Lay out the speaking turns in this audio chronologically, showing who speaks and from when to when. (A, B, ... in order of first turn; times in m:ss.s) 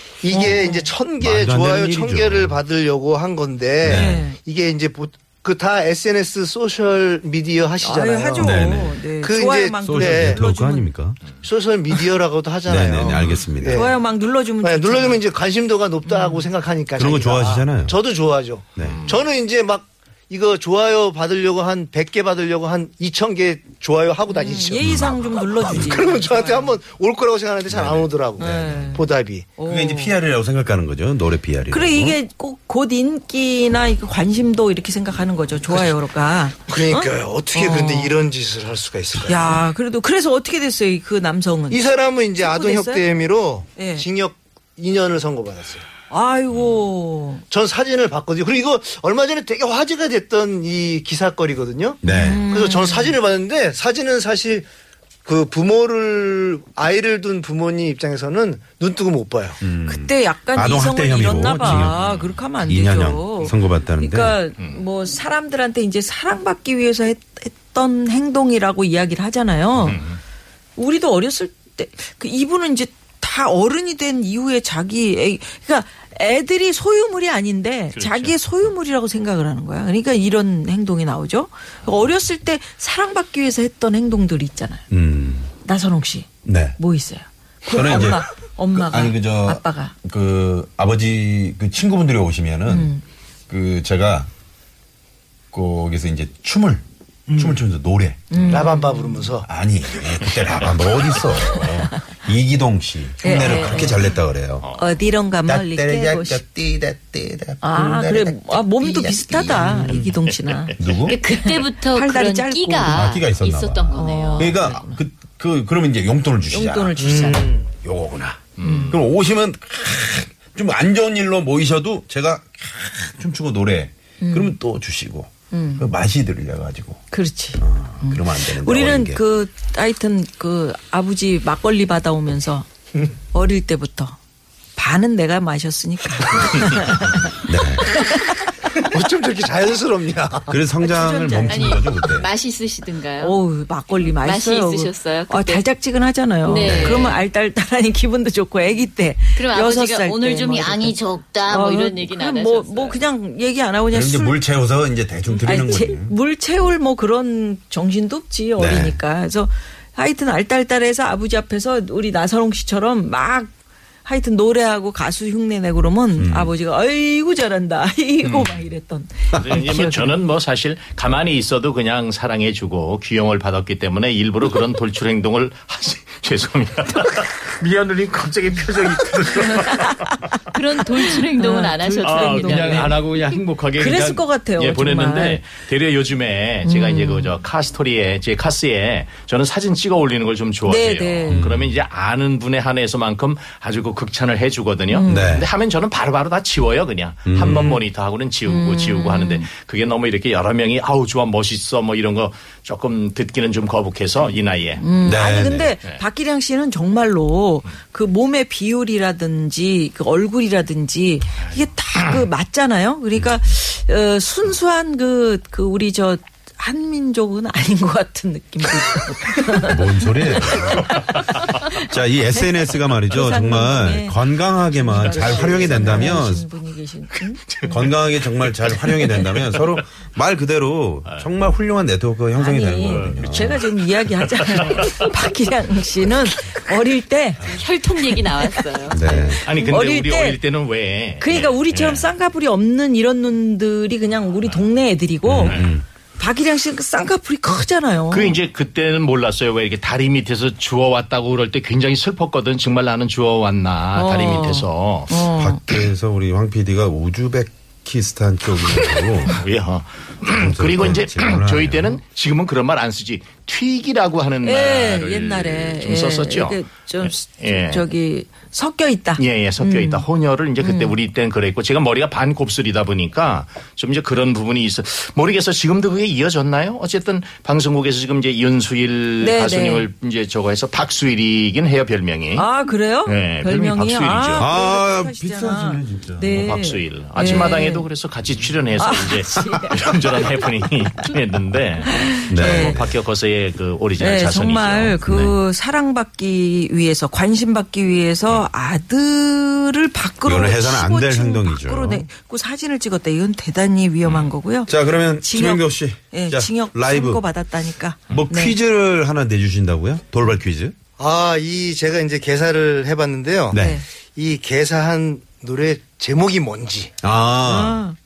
0:00.2-0:08.6 A
0:00.3-0:00.9 B
0:01.2-0:02.6 C
0:03.8-0:04.2 C
0:03.8-0:04.4 B
0:07.8-0:10.9 B
0:08.4-0:09.0 C
0:09.2-0:10.4 A
0:09.8-0:11.2 C
0:11.4-0:14.0 A
0:12.6-0:13.8 C
0:13.7-0:15.2 B
0:14.6-0:29.5 A
0:16.0-0:16.4 B
0:17.0-0:18.0 C
0:18.8-0:19.1 C
0:18.8-0:19.2 D
0:24.3-0:26.8 B
0:24.8-0:25.2 C
0:27.7-0:28.8 C
0:28.4-0:29.0 B
0:29.6-0:30.2 B
0:29.6-0:32.2 C
0:31.7-0:38.1 B
0:36.7-0:39.6 A
0:39.2-0:41.8 B
0:41.7-0:45.8 A
0:42.4-0:43.0 B
0:43.8-0:44.0 B
0:46.1-0:47.4 B
0:47.5-0:54.6 A
0:52.0-0:52.5 C
0:52.1-0:53.1 B
0:55.2-0:59.6 A
0:59.6-1:02.0 C
0:59.9-1:10.0 B
1:01.8-1:02.4 D
1:02.6-1:04.4 C
1:09.8-1:10.2 D
1:10.8-1:24.8 B
1:17.9-1:18.3 D
1:24.9-1:25.5 C
1:25.6-1:29.9 B
1:26.4-1:26.8 C
1:27.6-1:32.9 C
1:32.7-1:33.0 B
1:33.5-1:34.3 C
1:35.5-1:36.8 C
1:37.3-1:37.6 A
1:37.4-1:38.7 C
1:38.3-1:39.3 B
1:38.4-1:39.5 A
1:39.4-1:44.7 C
1:43.2-1:44.0 B
1:44.6-1:44.9 D
1:44.8-1:46.4 B
1:45.4-1:50.1 C
1:47.6-1:53.1 B
1:50.8-1:51.2 C
1:51.0-1:54.7 E
1:52.9-1:57.3 C
1:53.9-1:55.0 B
1:56.5-1:57.5 B
1:57.0-1:57.7 A
1:57.8-2:07.0 C
1:58.6-1:59.0 D
1:58.6-1:58.9 B
2:04.2-2:04.5 B
2:05.5-2:05.9 B
2:07.1-2:12.6 B
2:07.6-2:09.2 C
2:13.3-2:14.2 B
2:14.8-2:17.4 B
2:17.4-2:18.1 C
2:17.9-2:18.4 B
2:18.7-2:20.6 A
2:20.5-2:22.3 C
2:20.8-2:21.9 B
2:21.5-2:23.4 E
2:23.2-2:34.4 B
2:24.2-2:25.6 E
2:26.4-2:27.2 E
2:26.6-2:27.1 C
2:29.4-2:33.0 E
2:33.9-2:36.1 C
2:35.4-2:43.5 B
2:38.6-2:39.0 C
2:44.0-2:50.1 B
2:46.2-2:46.5 C
2:48.2-2:48.5 D
2:49.4-3:00.1 D
2:59.4-3:00.2 B
3:00.5-3:02.9 E
3:01.0-3:03.0 B
3:02.0-3:24.8 D
3:03.8-3:05.4 B
3:06.6-3:07.3 B
3:10.6-3:11.4 B
3:11.3-3:11.8 C
3:14.9-3:15.4 B
3:15.0-3:15.5 C
3:17.2-3:17.8 C
3:18.5-3:19.5 B
3:24.8-3:41.8 B
3:25.0-3:25.7 C
3:39.5-3:46.4 C
3:43.1-3:44.2 B
3:44.7-3:47.9 B
3:47.5-3:49.6 D
3:47.6-3:53.6 C
3:52.4-3:57.5 B
3:52.9-3:53.4 D
3:54.5-3:55.0 D
3:57.4-3:59.3 E
3:58.1-3:58.6 B
3:58.9-3:59.4 C
3:59.2-4:00.4 B
3:59.4-4:02.1 D
4:01.2-4:05.6 B
4:05.2-4:05.8 C
4:06.2-4:08.4 B
4:08.1-4:15.2 D
4:13.9-4:15.6 B
4:15.4-4:19.4 C
4:18.9-4:27.9 D
4:20.3-4:22.0 C
4:24.4-4:30.0 B
4:29.2-4:42.5 D
4:30.6-4:30.9 B
4:39.2-4:39.9 B
4:42.4-4:47.8 B
4:43.0-4:44.5 D
4:44.4-4:46.6 C
4:46.4-4:55.3 D
4:48.8-4:49.9 B
4:51.9-4:52.8 B
4:52.3-4:53.0 C
4:54.0-5:08.6 B
5:00.2-5:02.1 C
5:04.7-5:07.2 C
5:08.1-5:10.7 C
5:11.0-5:13.6 A
5:13.5-5:13.8 C
5:13.5-5:13.8 B
5:14.1-5:16.9 A
5:17.0-5:17.8 C
5:17.4-5:18.0 B